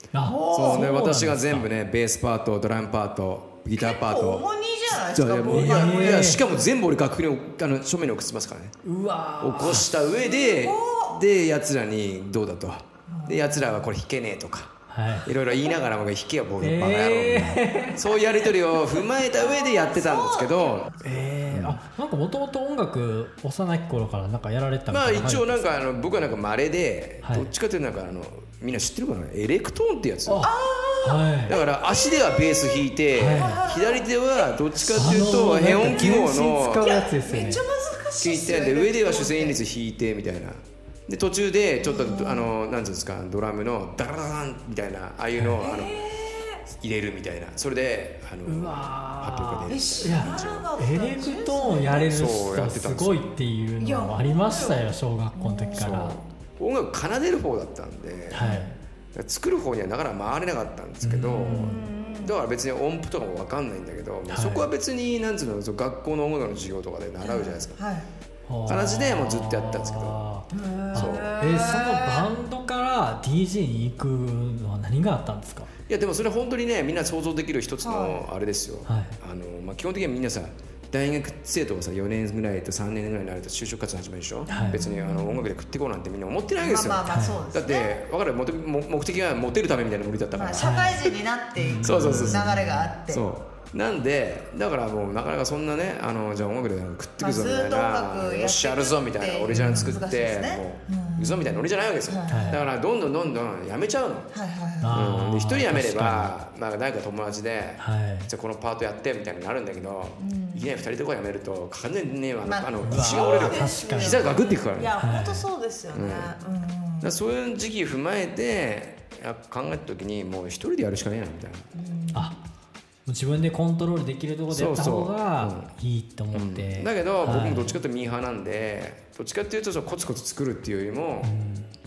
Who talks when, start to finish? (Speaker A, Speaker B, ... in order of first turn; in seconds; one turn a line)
Speaker A: 0.1-1.7
Speaker B: 0.2-1.0
Speaker C: 0.5-8.8
Speaker B: 3.7-6.4
Speaker A: 5.5-6.4
Speaker A: 8.8-10.0
Speaker C: 9.4-21.8
Speaker B: 10.1-11.2
Speaker B: 13.1-13.8
Speaker A: 14.9-15.3
Speaker A: 16.6-18.0
Speaker B: 19.3-21.0
Speaker A: 21.0-25.6
Speaker C: 24.9-30.5
Speaker A: 27.2-27.5
Speaker A: 30.3-31.5
Speaker B: 30.4-39.6
Speaker C: 31.5-37.0
Speaker A: 33.2-33.6
Speaker A: 35.0-37.6
Speaker C: 38.2-46.0
Speaker B: 41.8-42.5
Speaker A: 45.4-45.6
Speaker B: 45.6-46.6
Speaker C: 46.7-50.7
Speaker A: 48.5-56.2
Speaker B: 49.7-52.1
Speaker C: 52.0-53.2
Speaker B: 53.8-56.2
Speaker C: 55.8-58.5
Speaker A: 58.3-58.8
Speaker B: 58.3-58.7
Speaker C: 59.1-67.8
Speaker A: 61.0-61.8
Speaker B: 61.5-62.4
Speaker A: 64.3-64.7
Speaker B: 67.2-68.1
Speaker A: 68.5-75.7
Speaker C: 68.7-70.2
Speaker B: 70.5-72.4
Speaker C: 70.9-71.3
Speaker C: 75.9-90.8
Speaker B: 77.8-78.2
Speaker A: 78.9-79.2
Speaker A: 84.5-84.8
Speaker B: 84.5-85.5
Speaker B: 86.6-88.0
Speaker A: 87.1-87.4
Speaker B: 90.3-93.2
Speaker A: 90.6-92.9
Speaker C: 91.8-104.3
Speaker B: 97.2-102.6
Speaker A: 99.5-100.0
Speaker A: 102.3-102.6
Speaker B: 104.3-105.0
Speaker A: 104.8-106.3
Speaker C: 104.9-115.0
Speaker A: 107.8-108.3
Speaker B: 110.2-110.7
Speaker B: 112.4-117.2
Speaker A: 112.8-114.3
Speaker A: 115.0-115.5
Speaker C: 115.9-116.3
Speaker C: 117.0-121.7
Speaker B: 121.8-122.3
Speaker A: 123.1-127.8
Speaker C: 124.5-125.7
Speaker C: 126.3-131.4
Speaker A: 131.2-131.7